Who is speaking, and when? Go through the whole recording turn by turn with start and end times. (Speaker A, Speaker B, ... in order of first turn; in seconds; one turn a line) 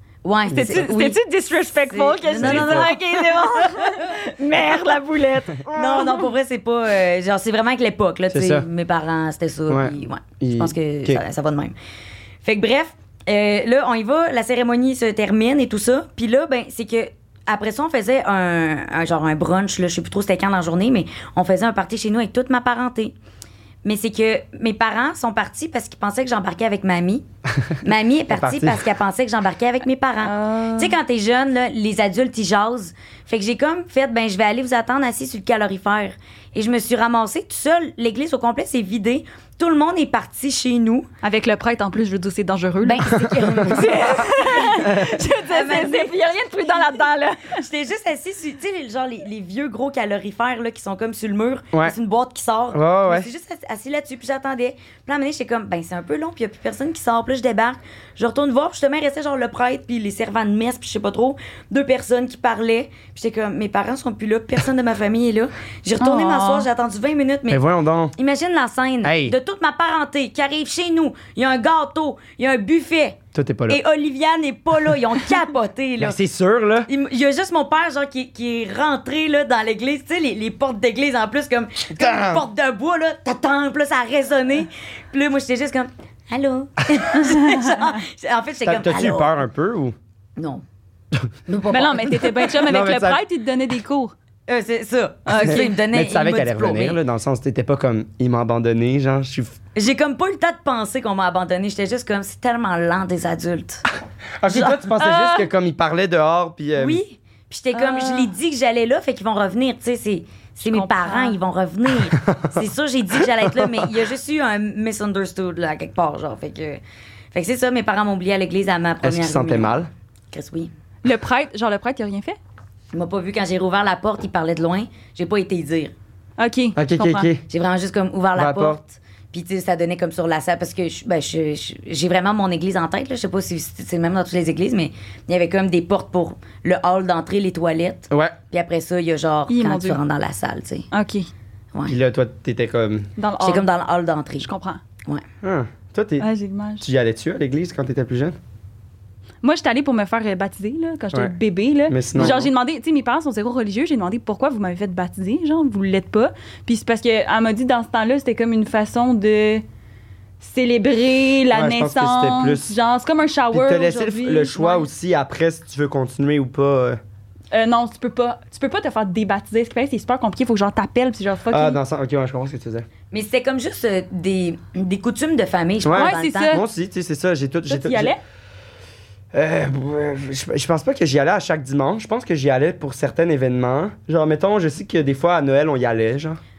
Speaker A: 0.2-1.2
Speaker B: 0.5-6.3
Speaker C: 0.5-0.8
Speaker A: 1.9-3.9
Speaker C: 2.4-2.9
Speaker A: 5.7-11.8
Speaker C: 8.3-8.7
Speaker C: 9.7-11.2
Speaker A: 12.4-23.1
Speaker A: 23.8-27.2
Speaker A: 27.8-41.1
Speaker C: 28.3-28.9
Speaker B: 30.2-30.9
Speaker B: 41.2-47.6
Speaker A: 42.8-46.1
Speaker C: 43.1-44.2
Speaker C: 44.8-45.2
Speaker A: 47.5-67.6
Speaker C: 52.7-53.3
Speaker B: 66.0-66.7
Speaker C: 67.5-68.1
Speaker A: 68.2-76.2
Speaker C: 69.0-69.3
Speaker C: 73.3-73.8
Speaker C: 76.0-76.9
Speaker A: 76.9-89.4
Speaker C: 81.9-82.5
Speaker B: 87.4-87.8
Speaker C: 88.6-89.9
Speaker A: 90.4-90.6
Speaker A: 91.5-92.5
Speaker B: 91.7-94.1
Speaker C: 92.7-93.2
Speaker A: 94.5-97.0
Speaker B: 95.3-95.7
Speaker C: 95.4-99.5
Speaker A: 99.7-103.8
Speaker C: 104.4-107.0
Speaker A: 104.5-104.9
Speaker B: 105.0-105.5
Speaker A: 106.8-116.8
Speaker B: 107.7-108.3
Speaker B: 110.6-111.3
Speaker C: 112.1-112.6
Speaker C: 113.2-113.9
Speaker A: 117.3-119.8
Speaker C: 119.0-119.9
Speaker A: 120.3-120.7
Speaker B: 121.0-122.4
Speaker A: 122.9-125.9
Speaker B: 126.4-127.3
Speaker C: 126.8-127.4
Speaker A: 127.5-140.9
Speaker C: 128.3-128.8
Speaker C: 138.1-138.3
Speaker B: 139.5-140.0
Speaker B: 140.9-141.3
Speaker C: 141.9-143.1
Speaker B: 143.2-143.7
Speaker A: 143.4-144.5
Speaker B: 144.4-144.8
Speaker C: 145.4-146.3
Speaker B: 146.2-146.8
Speaker C: 146.8-148.3
Speaker B: 149.4-159.6
Speaker C: 151.9-152.5
Speaker B: 160.4-164.9
Speaker C: 161.5-162.8
Speaker C: 163.5-167.0
Speaker B: 167.5-171.8
Speaker C: 171.5-172.9
Speaker A: 173.1-176.6
Speaker C: 175.8-178.1
Speaker B: 175.9-176.6
Speaker B: 177.7-178.2
Speaker C: 179.3-186.4